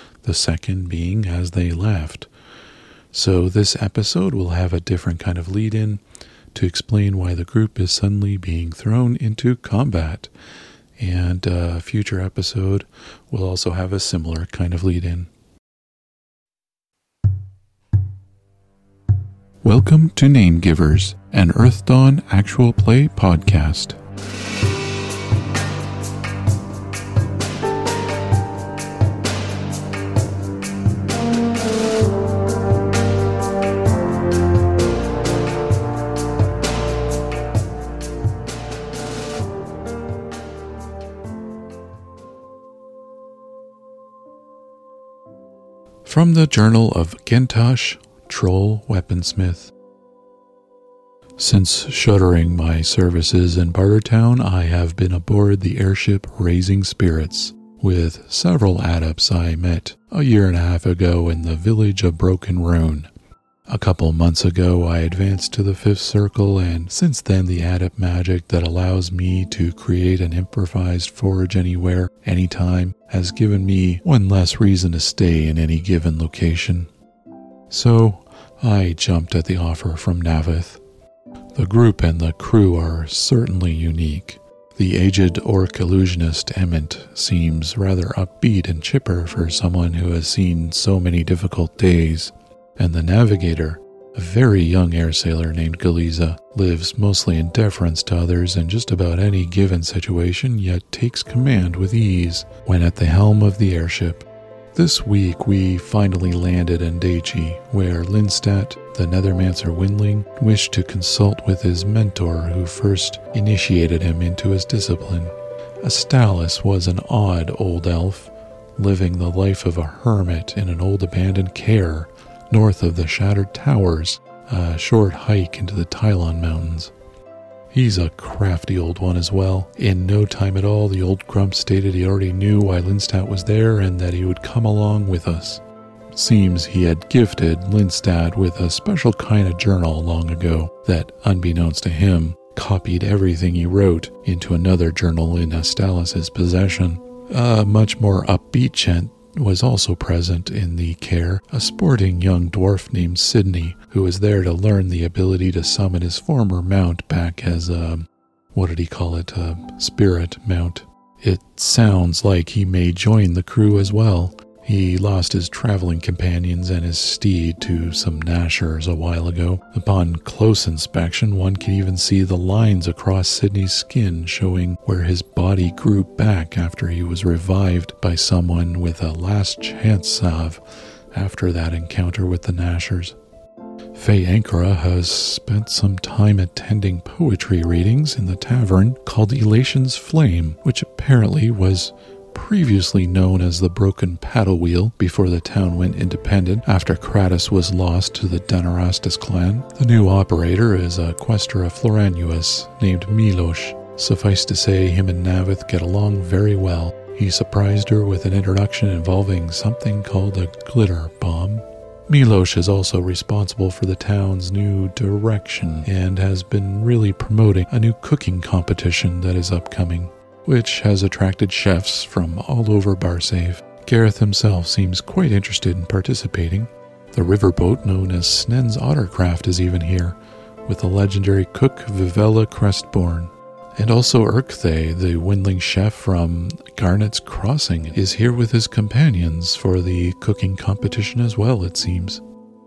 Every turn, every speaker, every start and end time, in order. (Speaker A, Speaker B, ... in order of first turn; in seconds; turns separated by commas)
Speaker A: 0.2-2.3, Speaker A: 3.1-6.0, Speaker A: 6.5-10.3, Speaker A: 11.0-15.3, Speaker A: 19.6-24.0, Speaker A: 46.0-49.7, Speaker A: 51.4-63.1, Speaker A: 63.7-76.9, Speaker A: 77.7-80.8, Speaker A: 81.6-126.9, Speaker A: 127.7-135.6, Speaker A: 136.1-180.6, Speaker A: 181.1-183.2, Speaker A: 183.9-242.2